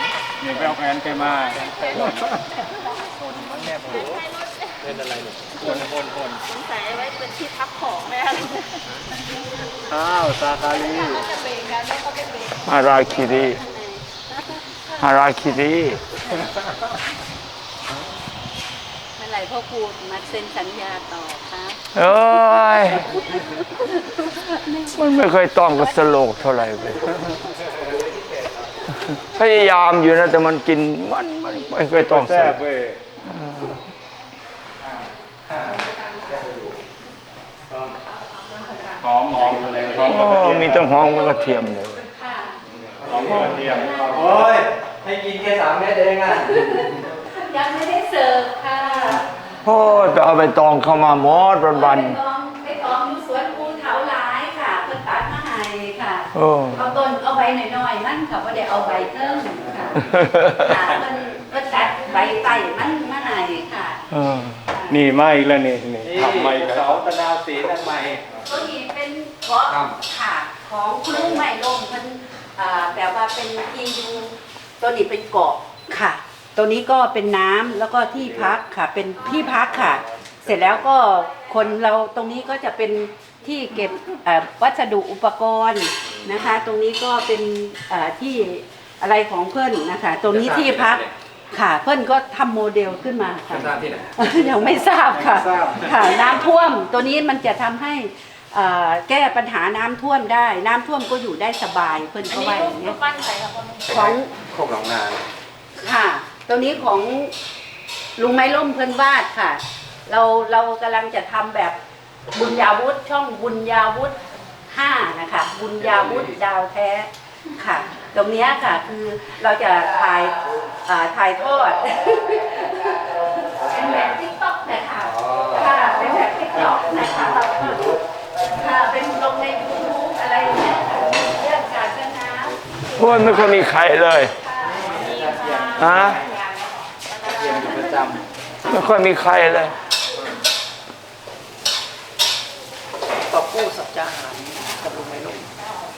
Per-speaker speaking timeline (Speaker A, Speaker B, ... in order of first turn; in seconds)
Speaker A: 0.4-2.3, 5.6-6.0, 9.8-11.3, 32.0-33.0, 39.0-41.4, 43.0-44.4, 64.9-67.1
Speaker B: 0.5-2.3, 3.1-4.2, 4.8-6.4, 27.7-28.6, 34.8-36.8, 39.3-40.6, 43.0-46.8, 66.0-68.5, 69.7-70.0, 86.1-86.5, 90.3-91.1, 93.5-96.1, 103.9-105.2, 115.8-116.3, 125.1-125.8, 134.6-136.3, 137.2-138.2
Speaker C: 6.5-8.8, 11.0-13.1, 38.4-38.9, 102.3-103.9, 134.9-138.1
Speaker D: 11.0-11.3, 13.4-13.9, 19.2-21.8, 36.0-36.3, 38.6-39.0, 42.0-42.6, 43.7-44.5, 46.5-49.3, 51.7-64.0, 64.7-65.0, 68.5-103.0, 103.9-104.3, 105.8-107.3, 108.2-111.8, 112.3-114.2, 114.7-127.9, 128.6-132.6, 134.4-135.0
Speaker E: 12.6-13.6, 15.0-16.0, 21.9-23.2, 24.9-27.1, 29.3-32.6, 33.3-33.8, 40.0-42.0, 49.6-52.2, 56.3-56.9, 60.1-60.8, 64.1-64.6, 132.9-134.3, 135.8-136.2, 138.7-139.8
Speaker F: 143.3-145.5